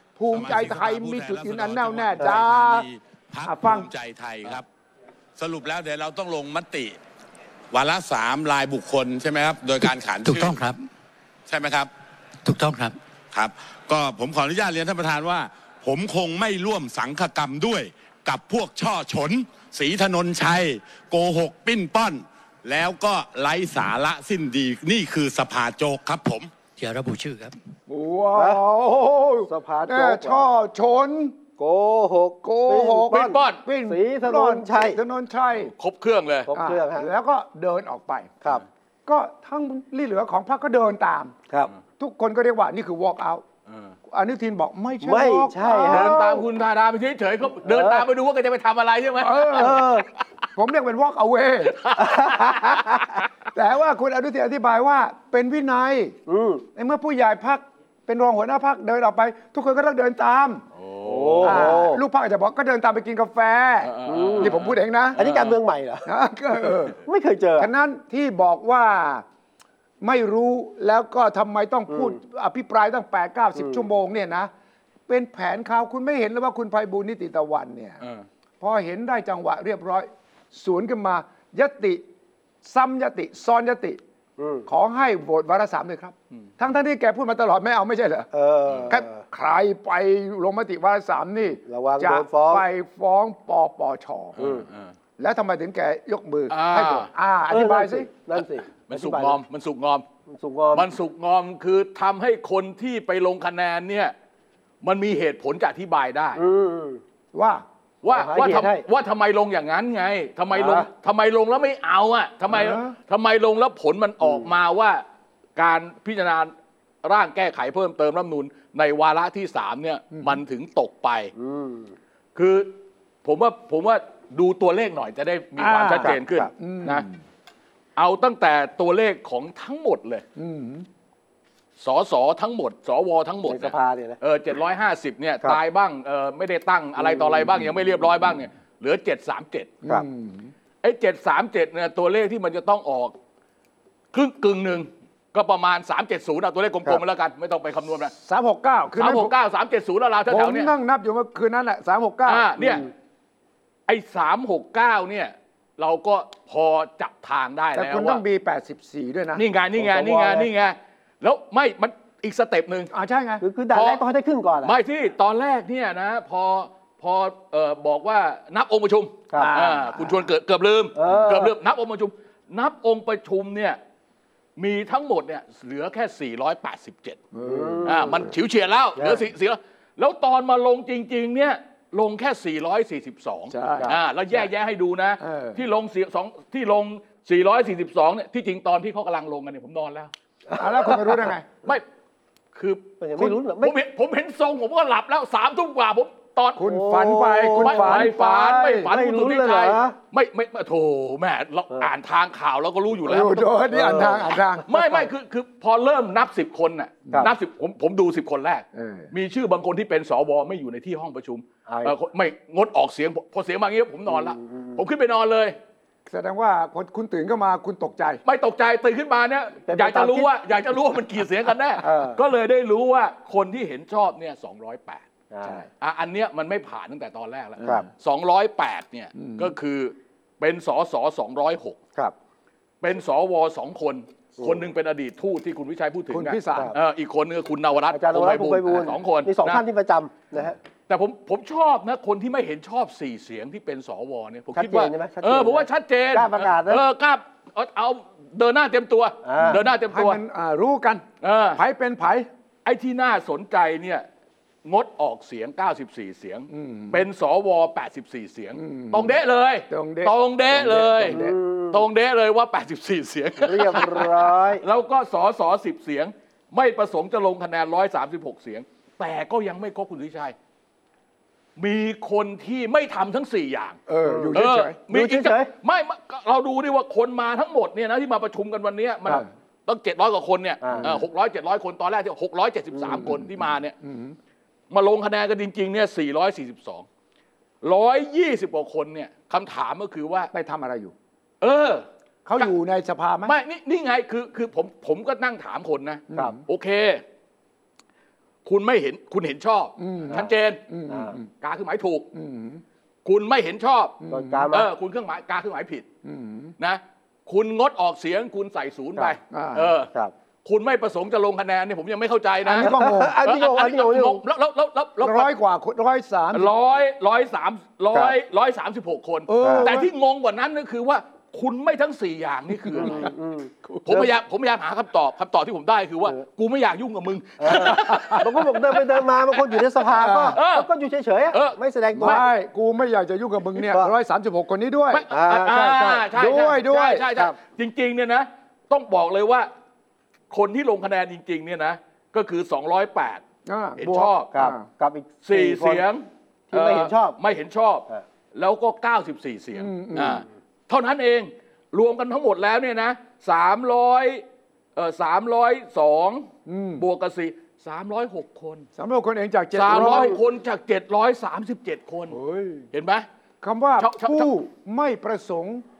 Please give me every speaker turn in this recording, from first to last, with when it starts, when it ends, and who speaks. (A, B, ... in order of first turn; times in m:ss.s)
0:00.2-0:02.9 A
0:00.3-0:04.7 B
0:03.4-0:03.9 A
0:05.4-0:07.0 B
0:07.7-0:10.6 B
0:10.2-0:10.8 C
0:11.5-0:11.9 B
0:12.4-0:13.0 C
0:13.3-0:26.5 B
0:26.8-0:27.6 C
0:27.9-0:31.4 A
0:28.4-0:28.6 D
0:29.5-0:30.5 D
0:31.6-0:35.0 D
0:32.4-0:35.7 A
0:33.1-0:33.6 E
0:35.6-0:36.5 E
0:36.5-0:37.1 D
0:36.5-0:38.4 A
0:39.1-0:41.4 A
0:42.0-0:43.4 A
0:43.7-0:43.9 E
0:44.1-0:46.5 A
0:45.0-0:46.2 D
0:45.9-0:49.9 E
0:47.6-0:48.0 D
0:49.2-0:49.8 A
0:49.6-0:50.1 D
0:50.6-0:51.9 A
0:51.7-0:53.0 E
0:52.0-0:53.0 D
0:53.5-0:56.2 A
0:56.3-0:56.6 D
0:56.8-1:00.6 A
1:00.8-1:01.8 E
1:01.0-1:02.0 D
1:01.4-1:05.2 A
1:03.8-1:05.6 E
1:04.1-1:04.5 D
1:05.2-1:06.1 D
1:06.0-1:07.0 A
1:06.9-1:07.7 D
1:07.6-1:09.2 A
1:10.0-1:14.5 A
1:11.9-1:12.2 D
1:13.6-1:13.8 D
1:15.1-1:18.0 A
1:18.6-1:22.0 A
1:22.6-1:24.0 A
1:24.4-1:24.7 D
1:24.7-1:28.3 A
1:28.3-1:29.2 D
1:28.9-1:34.4 A
1:31.7-1:32.6 D
1:34.4-1:34.9 E
1:34.4-1:34.6 D
1:35.2-1:38.1 A
1:36.5-1:37.1 E
1:37.5-1:39.4 D
1:38.4-1:40.0 E
1:40.3-1:40.9 D
1:40.7-1:44.1 E
1:44.8-1:46.4 E
1:46.4-1:47.0 D
1:47.3-1:47.6 A
1:48.0-1:55.0 E
1:48.1-1:48.8 D
1:50.5-1:50.9 D
1:52.5-1:53.0 A
1:55.6-1:56.5 E
1:57.0-2:01.3 E
2:01.4-2:02.0 D
2:02.4-2:07.1 E
2:05.6-2:07.2 A
2:06.0-2:06.5 D
2:08.0-2:10.2 E
2:10.4-2:10.9 A
2:11.8-2:19.8 E
2:13.5-2:14.2 D
2:17.0-2:17.5 D
2:19.8-2:20.5 A
2:20.8-2:23.2 E
2:24.1-2:28.1 E
2:28.1-2:29.3 A
2:29.0-2:30.7 E
2:30.3-2:32.5 A
2:32.3-2:32.9 E
2:32.6-2:32.9 D
2:33.9-2:38.2 E
2:37.7-2:39.4 A
2:39.4-2:42.9 E
2:39.8-2:40.5 D
2:42.9-2:43.4 A
2:43.4-2:44.7 D
2:43.7-2:44.0 E
2:44.6-2:53.8 E
2:49.4-2:50.2 A
2:51.0-2:51.5 D
2:54.6-2:57.2 E
2:57.3-2:58.3 A
2:57.4-2:58.1 D
2:57.8-3:10.1 E
2:59.0-2:59.3 D
3:03.5-3:04.4 A
3:05.2-3:05.6 A
3:10.5-3:11.2 D
3:10.6-3:11.5 A
3:12.6-3:16.6 E
3:13.0-3:13.8 D
3:16.6-3:18.9 A
3:16.6-3:20.0 D
3:17.6-3:23.5 E
3:23.1-3:25.1 A
3:23.7-3:24.4 D
3:24.7-3:35.6 E
3:28.7-3:29.1 A
3:31.7-3:32.0 D
3:34.1-3:34.8 D
3:36.1-3:38.2 A
3:38.2-3:45.0 E
3:39.7-3:40.3 D
3:41.8-3:42.2 D
3:45.3-3:45.6 D
3:45.8-3:51.8 E
3:47.6-3:47.9 D
3:49.2-3:49.5 A
3:52.8-3:59.6 E
3:56.1-3:56.7 A
3:57.9-4:00.6 D
4:00.9-4:10.2 E
4:04.5-4:06.8 D
4:09.2-4:09.6 D
4:09.6-4:12.3 A
4:11.2-4:11.6 E
4:12.6-4:14.1 E
4:14.6-4:30.4 E
4:16.5-4:17.0 A
4:18.6-4:19.2 A
4:19.7-4:21.4 A
4:21.1-4:21.8 D
4:23.4-4:24.6 D
4:31.6-4:33.8 E
4:33.9-4:34.8 A
4:34.0-4:34.4 D
4:34.3-4:43.7 E
4:34.9-4:35.5 D
4:40.6-4:41.0 D
4:42.7-4:43.0 D
4:43.1-4:44.2 A
4:44.7-4:46.9 E
4:47.6-4:50.3 E
4:50.3-4:50.9 A
4:51.4-4:51.9 E
4:52.2-4:53.4 A
4:53.3-4:57.0 E
4:56.1-4:56.4 A
4:58.4-5:00.6 E
4:59.8-5:01.3 A
5:00.9-5:01.2 D
5:01.4-5:02.1 E
5:02.1-5:02.6 A
5:03.0-5:04.0 E
5:04.0-5:04.6 A
5:04.1-5:04.7 D
5:04.5-5:05.9 E
5:06.0-5:06.6 A
5:06.6-5:09.9 E
5:09.3-5:09.7 A
5:10.4-5:15.3 E
5:12.4-5:13.2 A
5:12.6-5:14.2 D
5:15.0-5:16.5 A
5:16.3-5:23.1 E
5:19.3-5:19.9 A
5:19.4-5:19.7 D
5:22.6-5:23.1 A
5:22.8-5:24.1 D
5:23.9-5:29.6 E
5:27.4-5:32.2 D
5:27.5-5:28.4 A
5:29.9-5:30.4 A
5:30.3-5:30.7 E
5:31.3-5:32.2 E
5:32.0-5:37.1 A
5:33.6-5:33.9 D
5:34.9-5:39.5 E
5:35.1-5:35.5 D
5:40.3-5:43.2 E
5:43.5-5:44.6 A
5:43.8-5:44.3 E
5:44.3-5:45.8 D
5:45.3-5:54.2 E
5:46.5-5:47.2 D
5:49.6-5:50.2 A
5:54.8-5:56.3 E
5:56.5-5:56.8 A
5:56.8-5:58.6 E
5:58.8-6:00.2 A
5:59.5-6:02.2 E
6:02.1-6:02.7 A
6:02.7-6:03.1 E
6:03.4-6:05.6 A
6:03.8-6:04.3 E